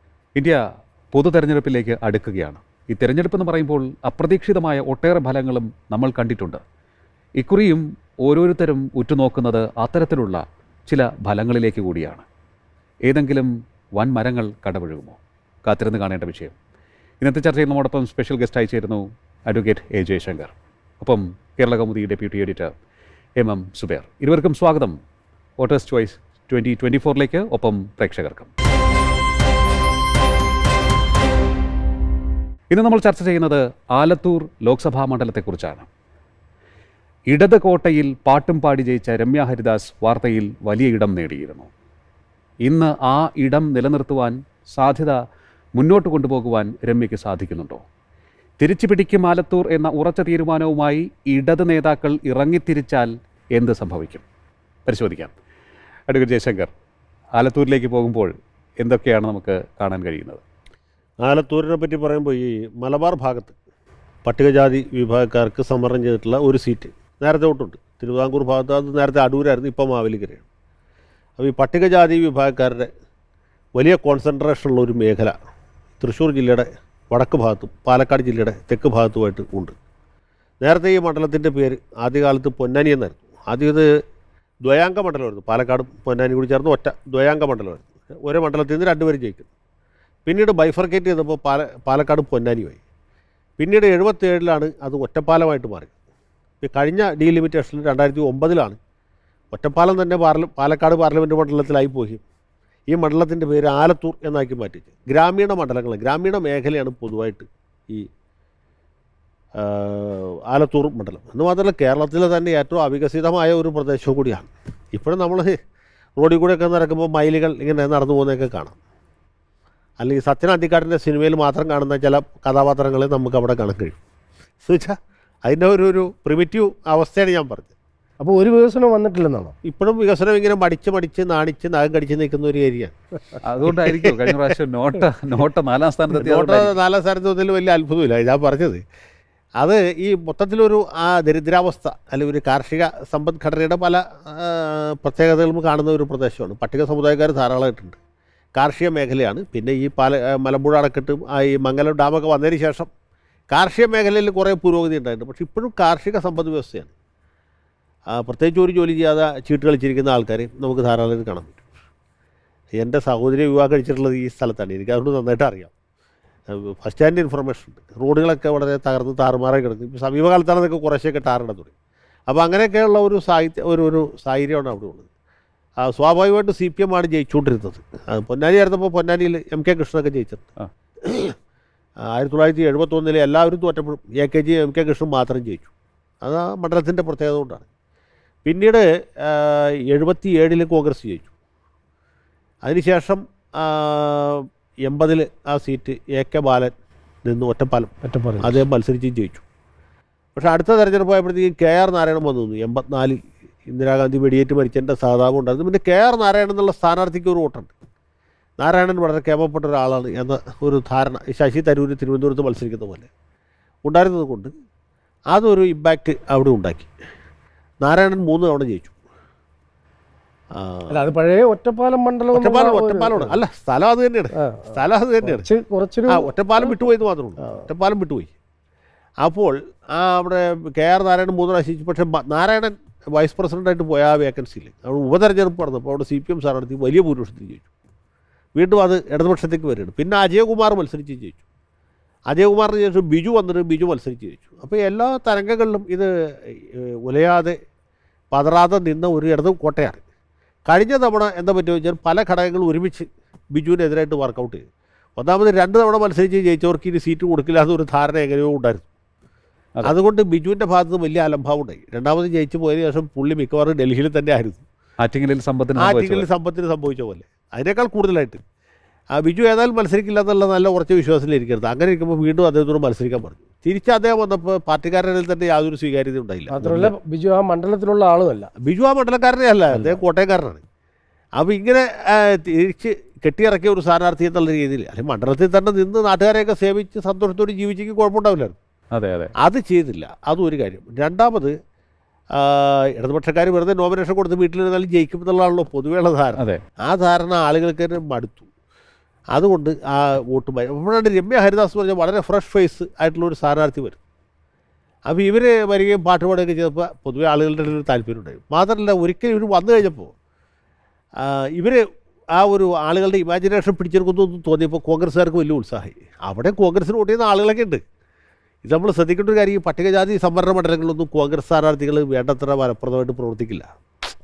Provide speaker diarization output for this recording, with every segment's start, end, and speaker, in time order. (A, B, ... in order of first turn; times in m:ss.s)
0:00.3-0:00.6 A
0:01.1-0:06.6 A
0:07.4-0:12.2 A
0:13.0-0:16.5 A
0:17.2-0:22.7 A
0:23.4-0:25.0 A
0:25.6-0:28.5 A
0:32.7-0:35.9 A
0:37.3-0:41.7 A
0:42.6-0:45.2 A
0:45.7-0:47.8 A
0:48.6-0:54.2 A
0:54.8-0:55.3 A
0:56.1-0:56.7 A
0:57.4-1:00.4 A
1:01.2-1:03.5 B
1:04.2-1:10.4 B
1:11.4-1:12.9 B
1:13.8-1:15.4 B
1:16.0-1:19.7 B
1:20.6-1:23.8 B
1:24.6-1:29.5 B
1:30.2-1:32.8 B
1:33.6-1:35.9 B
1:36.6-1:38.8 B
1:39.5-1:42.2 B
1:42.9-1:48.1 B
1:49.6-1:55.6 B
1:56.2-1:58.8 B
2:00.0-2:04.0 B
2:04.6-2:07.7 B
2:08.2-2:09.5 C
2:09.6-2:12.9 B
2:13.4-2:16.7 A
2:13.6-2:14.5 B
2:16.1-2:18.8 B
2:19.6-2:28.0 B
2:28.6-2:32.9 B
2:33.5-2:36.9 B
2:38.1-2:41.6 B
2:42.8-2:45.7 B
2:46.5-2:51.7 B
2:52.3-2:55.0 B
2:55.8-3:00.5 B
3:01.0-3:01.4 B
3:02.0-3:05.7 B
3:06.2-3:07.7 B
3:08.4-3:11.3 B
3:12.6-3:19.4 B
3:18.0-3:18.6 C
3:20.3-3:27.7 B
3:28.6-3:33.1 B
3:33.8-3:34.5 B
3:35.3-3:36.9 B
3:37.8-3:38.9 B
3:40.5-3:40.9 B
3:40.9-3:43.4 C
3:42.3-3:45.5 B
3:44.3-3:46.7 C
3:46.1-3:48.3 B
3:49.2-3:57.7 B
3:58.6-4:01.4 B
4:02.3-4:07.5 B
4:08.3-4:10.0 B
4:10.7-4:14.6 B
4:15.2-4:18.8 B
4:19.8-4:24.6 B
4:25.0-4:26.2 A
4:25.8-4:28.4 B
4:29.1-4:36.9 B
4:36.5-4:38.5 C
4:38.6-4:40.6 B
4:41.4-4:48.6 B
4:48.9-4:49.3 A
4:49.4-4:51.5 B
4:52.3-4:58.4 B
4:59.3-5:04.0 B
5:05.1-5:10.1 B
5:11.2-5:17.8 B
5:18.6-5:23.8 B